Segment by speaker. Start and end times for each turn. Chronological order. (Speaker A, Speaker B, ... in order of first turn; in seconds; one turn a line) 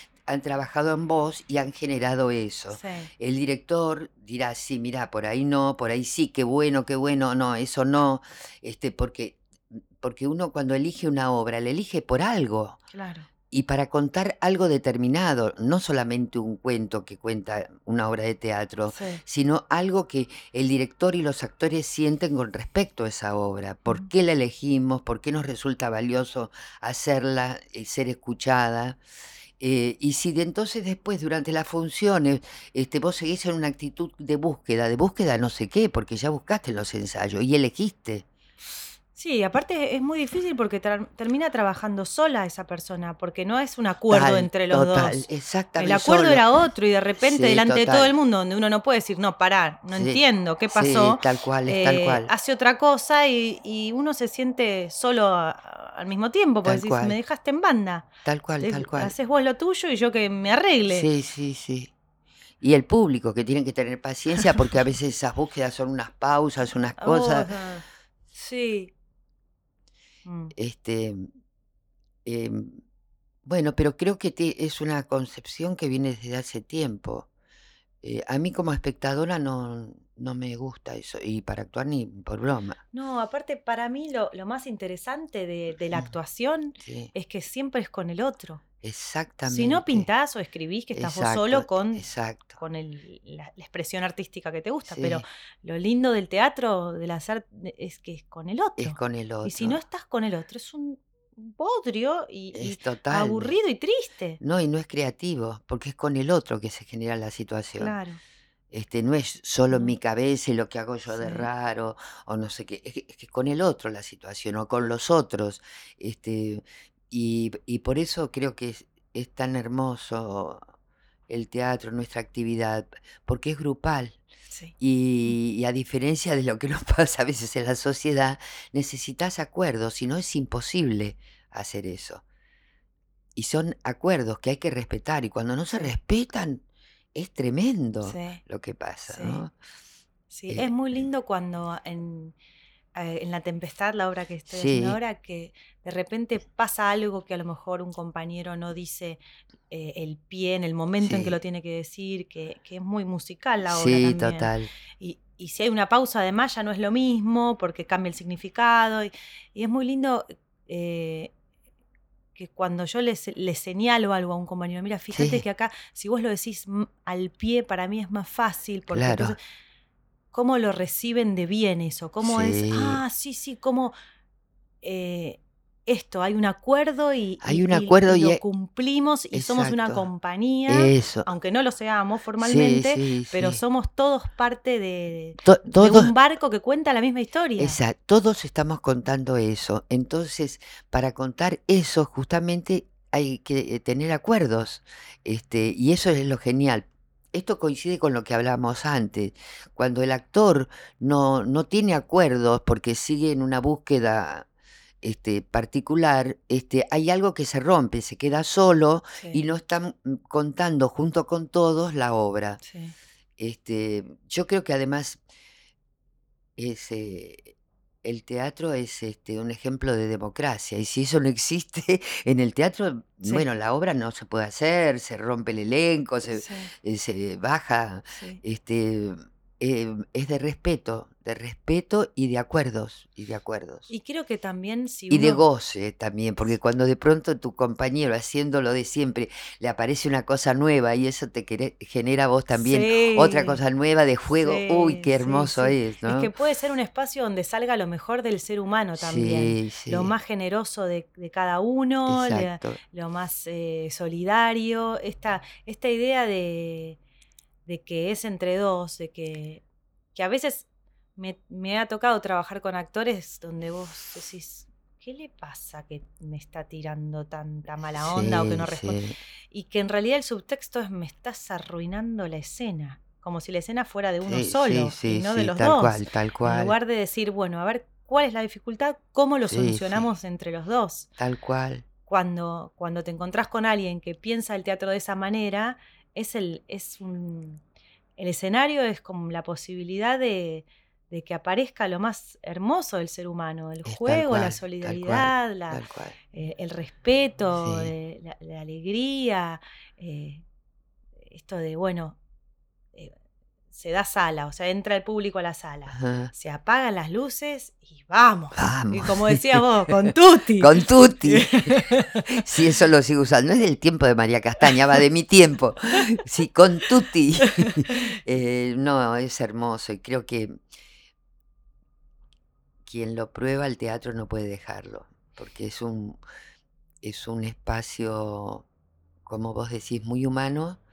Speaker A: 0.3-12.8
Speaker B: 2.7-3.1
Speaker B: 12.9-13.3
Speaker A: 13.5-29.0
Speaker B: 18.9-19.2
Speaker A: 29.6-38.3
Speaker B: 39.1-58.1
Speaker A: 44.1-46.4
Speaker A: 47.2-48.1
Speaker A: 49.9-52.3
Speaker A: 56.6-57.2
Speaker A: 58.2-59.1
Speaker B: 58.6-61.1
Speaker A: 60.9-61.9
Speaker A: 62.6-67.5
Speaker B: 67.0-68.9
Speaker B: 70.3-70.5
Speaker A: 70.5-71.3
Speaker A: 72.2-72.8
Speaker A: 73.5-77.3
Speaker A: 78.0-82.8
Speaker B: 82.9-88.6
Speaker A: 86.8-87.1
Speaker A: 88.8-90.1
Speaker B: 89.5-104.4
Speaker A: 90.9-92.6
Speaker A: 94.9-95.2
Speaker A: 98.8-99.8
Speaker A: 102.5-103.5
Speaker A: 104.4-108.0
Speaker B: 107.8-108.2
Speaker A: 108.7-120.6
Speaker B: 109.7-110.0
Speaker B: 111.1-111.5
Speaker A: 121.3-124.2
Speaker A: 124.8-132.2
Speaker A: 133.4-139.5
Speaker B: 138.0-138.4
Speaker B: 139.1-139.4
Speaker B: 140.3-142.4
Speaker B: 142.9-161.3
Speaker A: 144.5-145.0
Speaker A: 151.0-151.4
Speaker A: 153.7-154.7
Speaker B: 162.3-169.4
Speaker A: 165.1-165.4
Speaker A: 168.9-169.4
Speaker B: 170.3-173.9
Speaker A: 172.2-173.0
Speaker B: 174.8-187.8
Speaker A: 177.4-178.4
Speaker A: 179.3-180.1
Speaker A: 180.7-181.3
Speaker A: 182.4-183.6
Speaker A: 185.4-186.1
Speaker A: 187.6-204.5
Speaker A: 205.0-212.6
Speaker B: 212.6-212.9
Speaker A: 213.4-215.2
Speaker A: 216.6-233.9
Speaker B: 226.3-226.7
Speaker B: 228.1-228.4
Speaker B: 233.9-235.4
Speaker A: 235.1-246.3
Speaker B: 242.5-243.6
Speaker B: 244.4-257.0
Speaker A: 249.0-250.1
Speaker A: 252.1-252.8
Speaker B: 257.7-269.0
Speaker A: 268.0-269.2
Speaker B: 269.5-281.1
Speaker A: 274.3-276.7
Speaker A: 279.5-280.1
Speaker A: 281.2-281.9
Speaker B: 282.1-287.6
Speaker B: 288.2-295.8
Speaker A: 293.9-296.2
Speaker B: 296.3-300.4
Speaker A: 297.6-297.9
Speaker B: 301.3-302.2
Speaker B: 303.7-312.5
Speaker A: 305.9-306.3
Speaker A: 308.6-310.1
Speaker A: 310.6-320.6
Speaker A: 322.8-326.2
Speaker A: 327.0-328.7
Speaker A: 329.2-330.8